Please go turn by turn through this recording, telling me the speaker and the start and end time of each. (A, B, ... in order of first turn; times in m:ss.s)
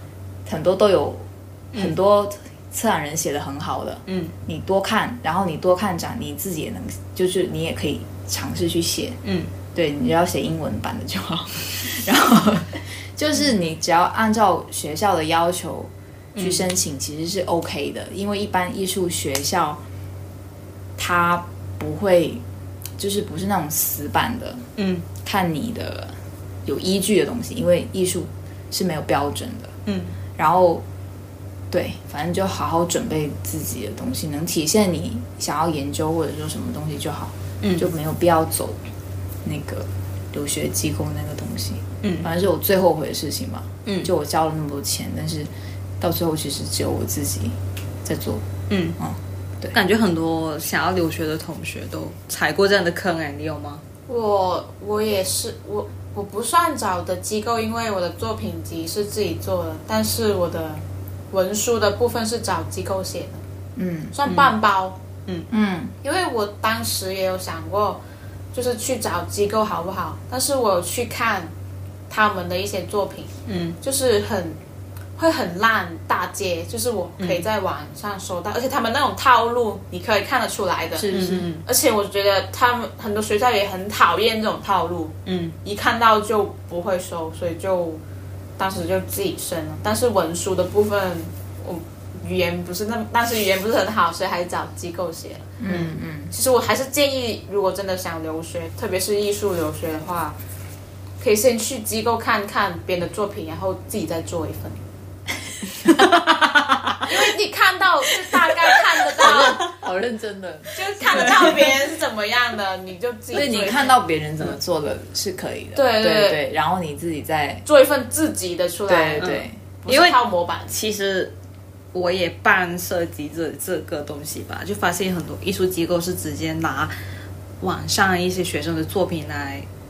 0:00.5-0:09.2 A
0:04.1-0:04.4 B
0:09.2-0:09.5 B
0:09.7-0:19.8 A
0:16.4-0:16.7 B
0:21.0-0:22.4 A
0:23.0-0:24.7 A
0:24.8-0:25.1 B
0:25.2-0:29.8 A
0:29.9-0:30.1 B
0:30.4-0:30.8 A
0:31.7-0:38.8 A
0:37.6-0:37.9 B
0:39.4-0:48.4 A
0:42.0-0:42.3 B
0:43.9-0:44.1 B
0:48.7-0:49.0 B
0:49.0-0:49.8 A
0:49.7-0:53.8 B
0:54.1-1:03.4 C
1:03.8-1:04.2 A
1:04.1-1:05.0 C
1:04.3-1:04.5 B
1:05.5-1:06.0 A
1:06.0-1:08.0 C
1:08.5-1:11.5 C
1:12.1-1:14.6 C
1:13.5-1:13.8 B
1:15.2-1:28.0 C
1:17.2-1:17.4 B
1:21.0-1:21.5 A
1:21.1-1:21.6 B
1:25.2-1:25.6 B
1:28.6-1:35.6 C
1:35.6-1:36.3 A
1:35.7-1:36.0 B
1:36.3-1:40.4 C
1:41.2-1:44.8 C
1:47.0-1:49.7 C
1:49.2-1:51.7 A
1:50.7-1:54.0 C
1:51.1-1:51.7 B
1:53.3-1:57.6 A
1:55.8-1:56.4 C
1:57.7-2:00.7 C
1:58.9-1:59.6 A
1:59.2-2:01.3 B
2:01.9-2:07.0 B
2:07.6-2:09.7 B